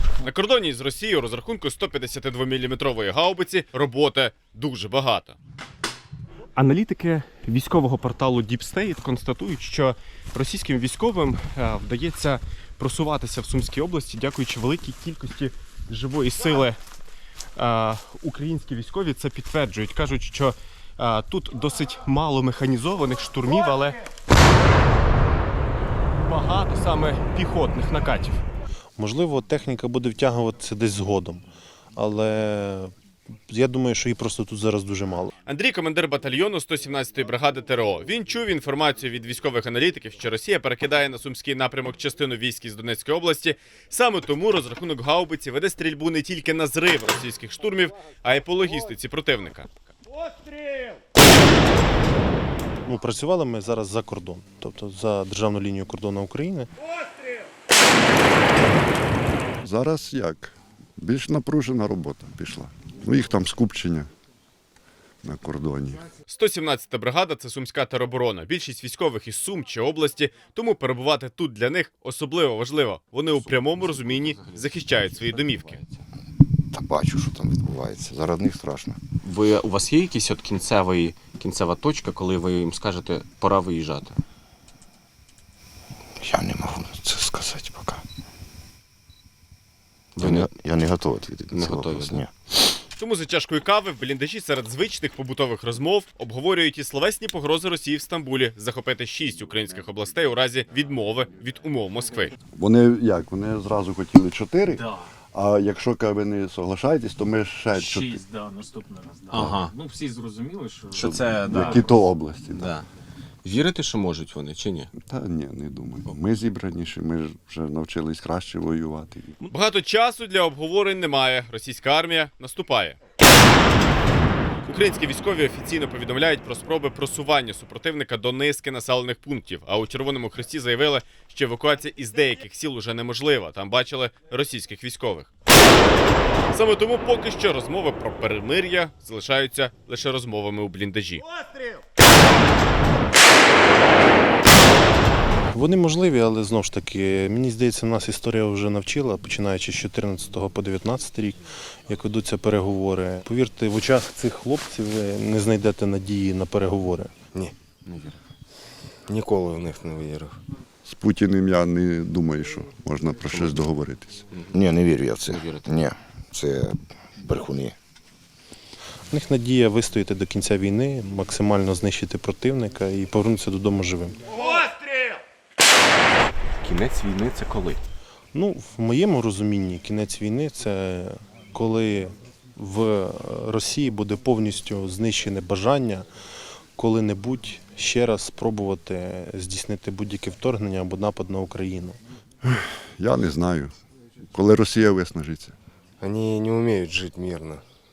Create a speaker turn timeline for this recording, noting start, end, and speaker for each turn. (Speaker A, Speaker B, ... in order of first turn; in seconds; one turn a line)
Speaker A: 0.2-5.4
Speaker A: 6.5-16.8
Speaker A: 17.6-24.0
Speaker A: 26.2-28.4
Speaker B: 29.0-32.9
Speaker B: 33.5-35.3
Speaker A: 35.5-49.7
Speaker B: 52.9-56.7
Speaker C: 59.6-64.1
Speaker C: 65.2-66.0
Speaker A: 66.3-75.8
Speaker D: 73.5-75.9
Speaker E: 76.7-79.0
Speaker D: 79.2-84.2
Speaker E: 86.2-88.0
Speaker D: 90.2-90.5
Speaker E: 90.2-92.8
Speaker D: 91.5-92.2
Speaker A: 93.0-102.3
Speaker C: 102.6-108.2
Speaker F: 107.7-111.5
Speaker D: 109.3-109.7
Speaker D: 110.9-111.9
Speaker C: 111.1-112.7
Speaker D: 112.5-112.8
Speaker D: 113.4-114.9
Speaker C: 115.0-119.3
Speaker A: 119.5-123.0
Speaker A: 124.7-135.3
Speaker A: 136.5-141.2
Speaker B: 145.5-157.1
Speaker D: 157.9-158.2
Speaker G: 159.1-160.3
Speaker C: 160.8-164.2
Speaker E: 163.2-163.7
Speaker D: 163.3-163.6
Speaker D: 164.3-164.6
Speaker E: 164.5-167.8
Speaker D: 165.2-165.7
Speaker B: 169.1-174.2
Speaker D: 176.6-177.8
Speaker B: 178.3-186.1
Speaker B: 186.8-192.0
Speaker C: 192.4-193.7
Speaker C: 194.3-195.5
Speaker G: 196.0-197.6